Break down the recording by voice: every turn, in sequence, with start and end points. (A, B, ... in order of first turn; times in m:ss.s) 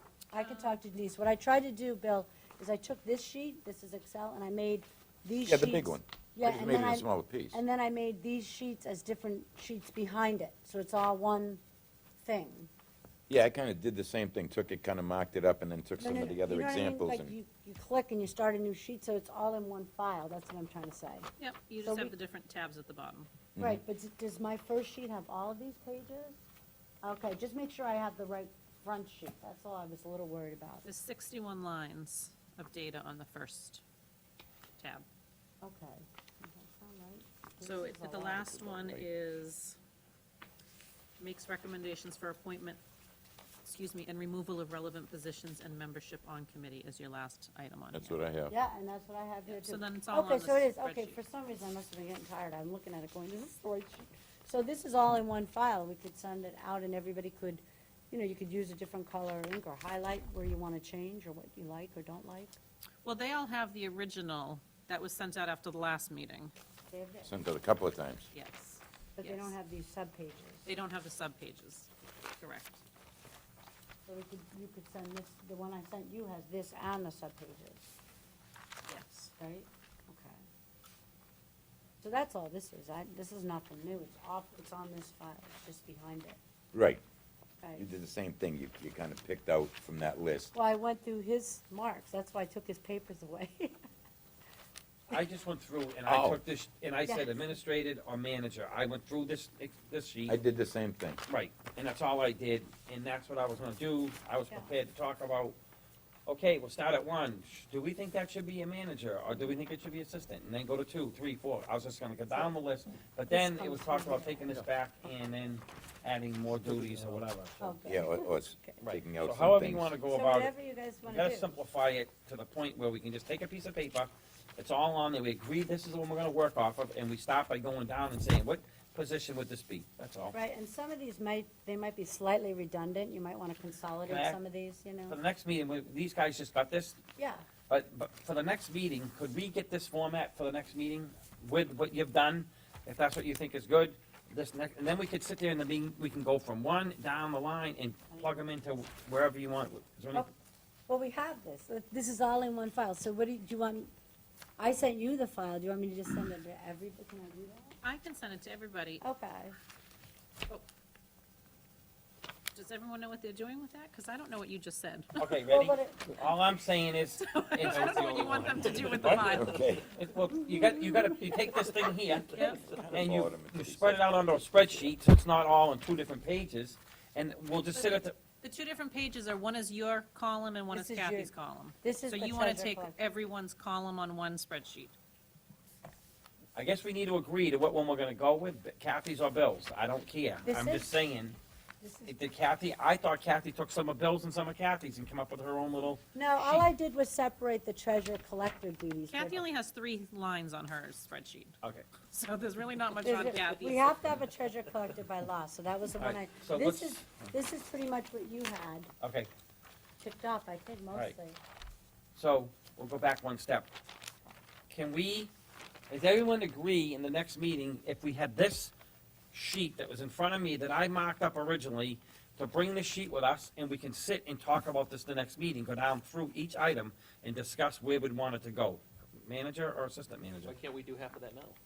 0:00.3-0:11.6 A
0:00.4-0:00.8 B
0:05.4-0:07.6 C
0:12.2-0:12.7 A
0:13.3-0:17.3 C
0:16.0-0:21.3 A
0:21.4-0:23.3 B
0:21.8-0:22.2 A
0:23.6-0:23.8 C
0:23.6-0:26.4 A
0:27.0-0:30.9 A
0:30.8-0:33.8 B
0:34.8-0:35.1 B
0:35.6-0:38.5 A
0:37.6-0:39.8 B
0:38.4-0:39.1 C
0:41.2-0:42.8 B
0:43.6-0:48.2 B
0:47.9-0:48.5 C
0:48.5-1:02.6 A
0:49.5-0:51.2 B
1:03.0-1:06.5 B
1:06.9-1:07.3 A
1:07.2-1:08.3 C
1:08.3-1:09.5 B
1:09.2-1:10.7 A
1:10.7-1:12.8 B
1:14.1-1:17.9 A
1:18.9-1:19.3 B
1:19.4-1:20.4 A
1:22.0-1:26.4 A
1:26.7-1:27.0 C
1:27.8-1:30.5 C
1:30.5-1:33.8 A
1:35.1-1:40.4 D
1:36.1-1:36.4 C
1:37.0-1:37.5 A
1:40.3-1:41.2 C
1:41.3-1:45.6 D
1:46.3-1:57.8 D
1:53.3-1:54.7 A
1:57.6-1:58.8 A
1:57.8-2:00.0 C
1:58.8-2:00.5 D
2:00.1-2:01.6 A
2:01.1-2:10.4 D
2:10.3-2:15.2 A
2:14.1-2:14.4 D
2:15.1-2:17.0 D
2:17.2-2:17.4 A
2:17.7-2:30.3 D
2:28.1-2:28.5 A
2:30.9-2:33.9 A
2:34.6-2:37.8 A
2:37.8-2:39.0 B
2:39.0-2:39.6 A
2:42.5-2:45.4 B
2:45.2-2:58.2 D
2:45.5-2:46.2 A
2:47.2-2:49.8 B
2:47.6-2:49.8 E
2:48.9-2:49.9 C
2:52.3-2:52.8 B
2:52.5-2:54.9 C
2:57.8-3:05.0 B
3:00.7-3:01.3 A
3:01.8-3:03.0 A
3:06.6-3:11.4 D
3:10.4-3:11.1 A
3:11.8-3:12.2 A
3:12.1-3:16.7 D
3:16.1-3:19.4 A
3:19.1-3:24.0 B
3:21.6-3:22.0 D
3:23.0-3:28.9 A
3:26.0-3:27.3 D
3:29.0-3:29.3 D
3:30.0-3:31.4 A
3:32.2-3:33.7 D
3:34.7-3:35.3 D
3:35.9-3:38.7 D
3:39.3-3:50.6 D
3:50.4-3:51.6 E